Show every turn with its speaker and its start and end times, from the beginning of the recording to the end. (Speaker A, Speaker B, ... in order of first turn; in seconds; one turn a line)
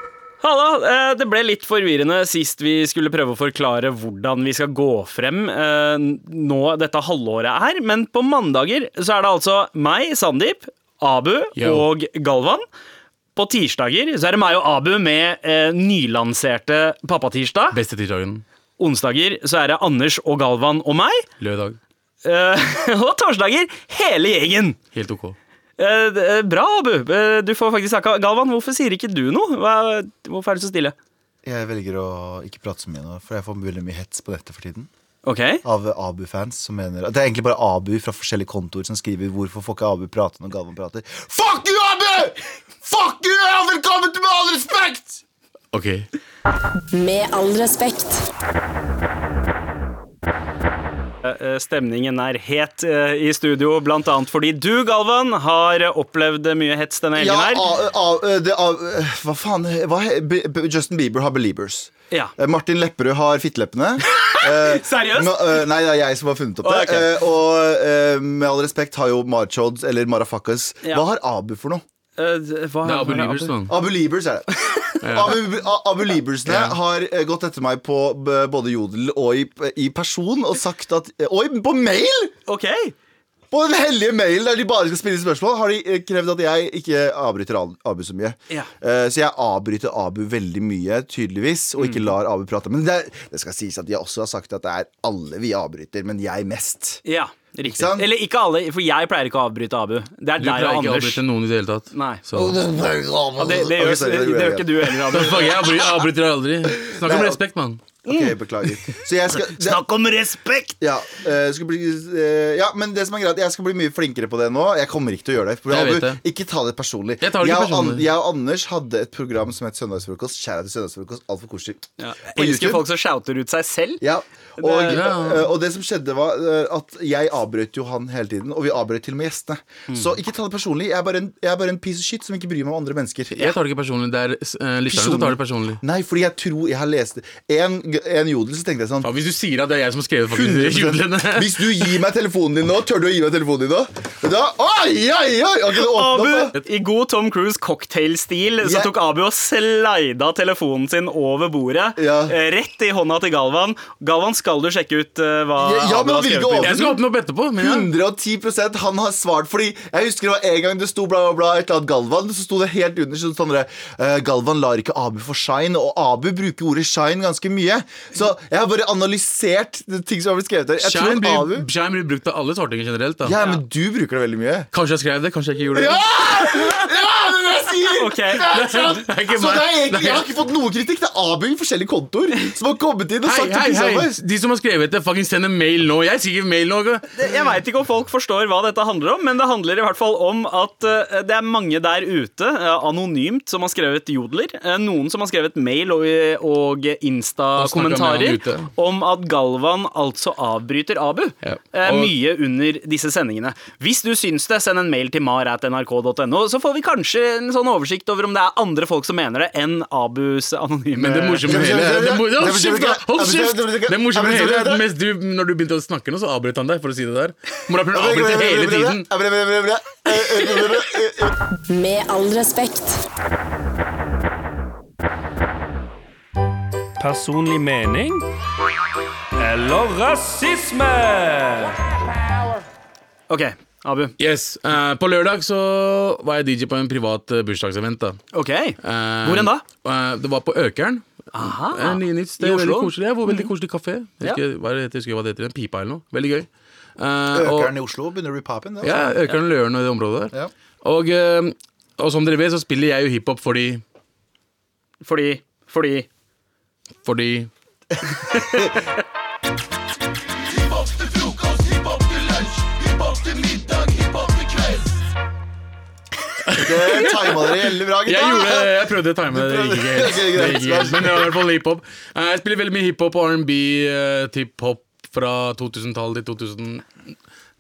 Speaker A: 0.4-12.7
Speaker B: 11.6-11.9
Speaker A: 13.4-17.8
Speaker B: 17.7-18.4
Speaker A: 18.8-21.3
Speaker B: 21.4-21.8
Speaker A: 22.2-24.8
Speaker B: 24.9-25.4
Speaker A: 25.8-30.9
Speaker C: 31.4-34.9
Speaker A: 35.2-35.6
Speaker C: 35.6-45.2
Speaker B: 45.7-46.1
Speaker D: 46.9-48.3
Speaker A: 51.2-57.7
Speaker C: 57.1-71.8
Speaker A: 64.1-65.7
Speaker A: 66.6-67.2
Speaker A: 72.2-73.5
Speaker B: 72.8-73.8
Speaker C: 73.7-82.3
Speaker B: 75.0-75.4
Speaker B: 76.5-76.8
Speaker A: 82.5-83.0
Speaker C: 83.5-97.0
Speaker A: 91.8-92.0
Speaker A: 97.0-101.2
Speaker C: 97.6-98.1
Speaker B: 100.4-102.6
Speaker A: 101.9-102.2
Speaker C: 102.3-105.7
Speaker A: 103.4-105.7
Speaker B: 105.1-107.8
Speaker C: 106.8-107.4
Speaker C: 108.0-109.8
Speaker A: 108.1-110.8
Speaker C: 110.8-122.8
Speaker B: 115.7-116.2
Speaker B: 117.2-118.1
Speaker A: 122.0-124.0
Speaker C: 124.0-133.5
Speaker A: 124.6-125.2
Speaker B: 124.8-125.5
Speaker B: 133.3-135.8
Speaker C: 134.9-139.1
Speaker B: 139.0-141.7
Speaker C: 140.3-146.5
Speaker A: 145.8-156.9
Speaker C: 148.6-148.9
Speaker C: 152.0-152.4
Speaker C: 155.6-157.0
Speaker B: 156.6-157.9
Speaker C: 157.6-171.7
Speaker B: 170.8-173.4
Speaker C: 173.2-174.7
Speaker B: 174.7-176.4
Speaker C: 175.7-184.2
Speaker A: 177.9-178.4
Speaker B: 178.4-180.3
Speaker B: 183.2-187.2
Speaker A: 187.2-211.6
Speaker B: 197.6-198.7
Speaker B: 201.4-202.1
Speaker B: 211.0-219.1
Speaker C: 211.4-214.8
Speaker C: 217.9-221.3
Speaker D: 221.7-223.0
Speaker E: 227.0-228.2
Speaker E: 229.4-231.8
Speaker A: 233.3-234.1
Speaker B: 234.2-238.2
Speaker A: 238.3-239.6
Speaker B: 238.8-247.7
Speaker A: 241.3-243.5
Speaker C: 247.3-249.2
Speaker B: 248.8-253.8
Speaker A: 255.0-256.1
Speaker B: 257.0-257.5
Speaker A: 258.3-258.9
Speaker C: 258.3-258.8
Speaker B: 266.4-276.9
Speaker C: 266.5-271.4